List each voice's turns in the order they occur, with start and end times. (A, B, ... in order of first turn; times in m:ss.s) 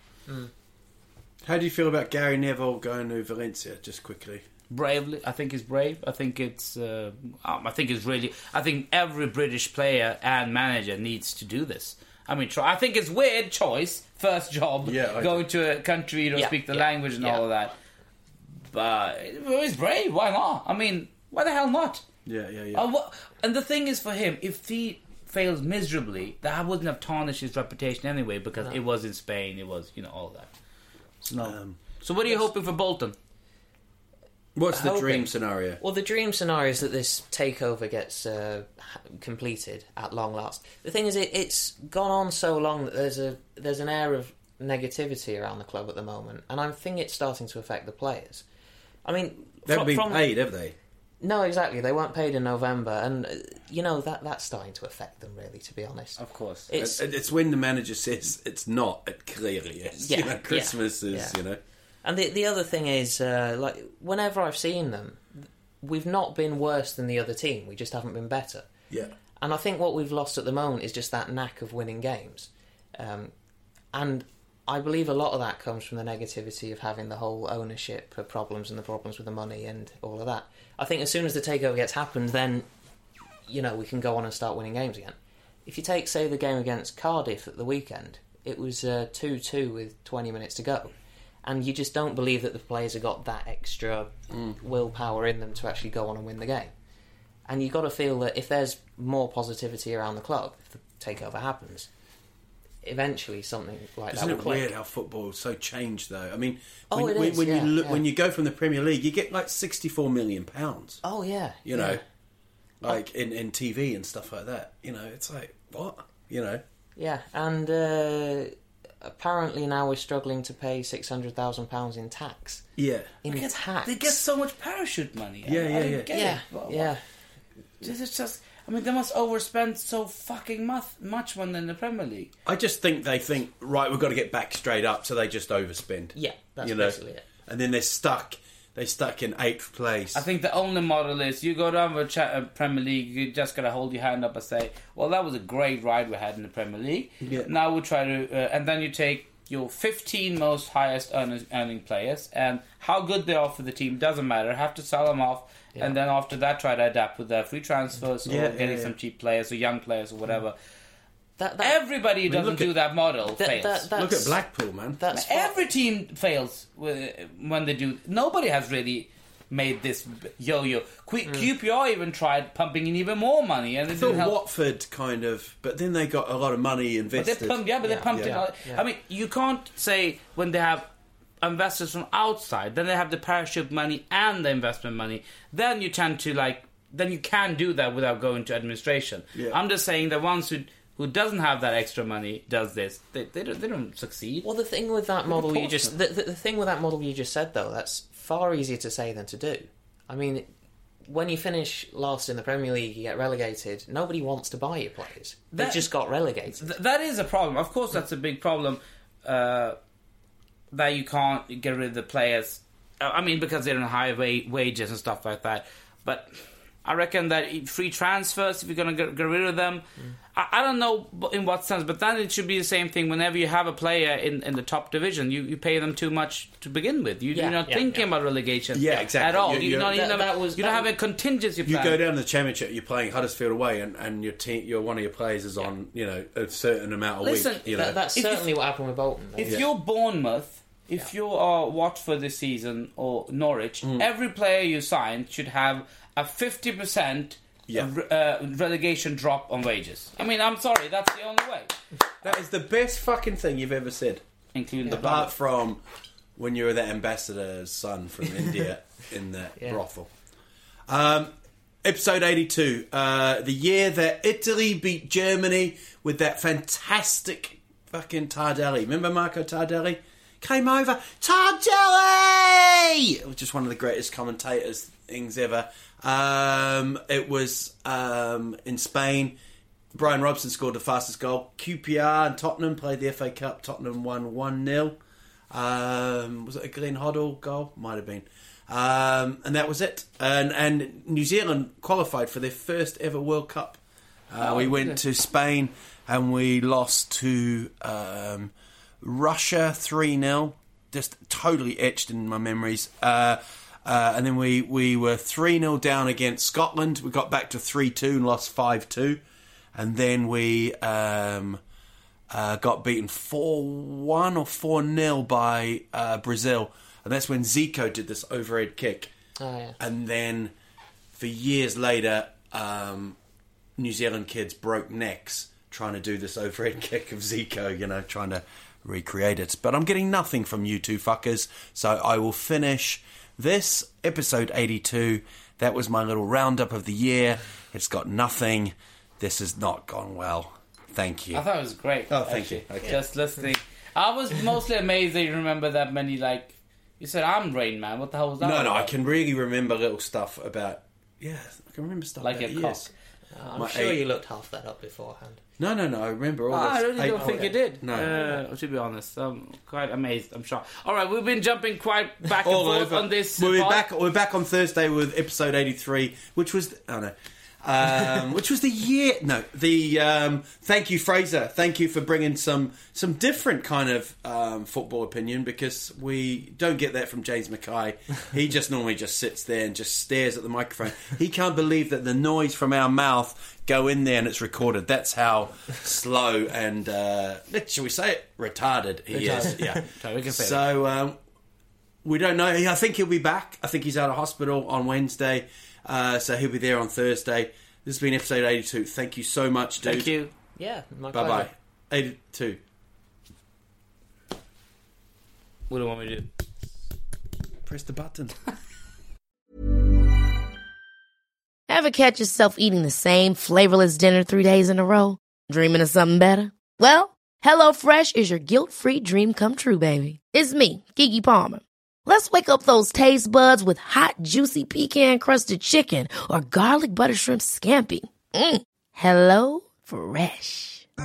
0:01.4-0:04.4 A
0:04.7-0:17.7 B
0:14.8-0:15.4 A
0:16.4-0:17.4 C
0:18.7-0:22.0 B
0:22.2-0:22.9 A
0:22.7-0:30.5 B
0:31.2-0:33.2 B
0:31.4-0:31.8 A
0:34.6-0:35.8 A
0:34.7-0:48.4 C
0:49.0-0:50.3 C
0:49.6-0:50.8 A
0:51.2-0:57.1 C
0:56.2-0:56.7 B
0:56.7-1:01.6 A
1:00.0-1:01.4 C
1:02.0-1:08.7 C
1:09.4-1:13.3 C
1:13.9-1:22.7 C
1:23.5-1:30.9 C
1:31.4-1:36.7 C
1:34.3-1:34.6 A
1:37.5-1:41.9 C
1:42.8-1:44.7 C
1:44.1-1:51.0 A
1:46.9-1:48.0 C
1:51.0-1:52.0 C
1:51.7-1:52.0 A
1:52.8-1:56.6 A
1:57.0-2:04.2 C
2:02.8-2:03.1 A
2:03.3-2:06.9 B
2:05.5-2:06.1 A
2:06.1-2:07.0 C
2:07.8-2:12.3 B
2:12.4-2:20.2 A
2:16.2-2:17.3 C
2:20.1-2:40.6 B
2:27.2-2:27.5 A
2:38.2-2:39.0 A
2:41.4-2:41.8 C
2:41.6-2:43.9 B
2:42.3-2:42.7 A
2:43.4-2:44.4 C
2:44.0-2:45.0 A
2:45.0-2:45.6 C
2:45.1-2:54.4 B
2:54.0-2:58.4 A
2:57.2-3:00.9 B
2:57.8-2:58.8 C
3:01.4-3:14.5 B
3:09.3-3:09.6 A
3:14.4-3:20.5 C
3:15.4-3:15.9 A
3:21.0-3:26.7 C
3:25.5-3:25.8 B
3:26.5-3:29.8 B
3:30.7-3:52.0 B
3:47.3-3:48.1 C
3:48.7-3:50.0 A
3:49.8-3:50.9 C
3:51.6-3:58.0 A
3:57.2-3:58.5 B
3:57.7-3:59.7 C
3:59.4-4:11.7 B
4:03.8-4:04.1 A
4:12.2-4:14.2 A
4:14.5-4:15.3 B
4:14.8-4:15.8 A
4:16.4-4:20.1 A
4:20.9-4:39.4 A
4:39.9-4:45.0 A
4:45.5-5:09.2 A
4:54.4-4:55.0 B
5:09.8-5:11.6 A
5:12.3-5:19.1 A
5:19.4-5:19.8 C
5:19.8-5:20.5 A
5:21.2-5:23.2 A
5:23.8-5:41.4 A
5:41.3-5:48.9 B
5:42.1-5:43.0 A
5:48.4-5:52.9 A
5:52.2-5:52.9 B
5:53.3-5:55.4 C
5:53.6-5:54.0 A
5:55.6-5:58.1 A
5:56.5-6:03.9 B
5:57.0-5:58.4 C
6:02.4-6:31.2 A
6:29.1-6:30.6 B
6:32.0-6:40.1 A
6:39.8-6:40.3 B
6:40.6-6:41.5 C
6:41.1-6:42.6 A
6:45.7-6:46.3 B
6:47.7-6:48.4 A
6:51.7-7:10.9 D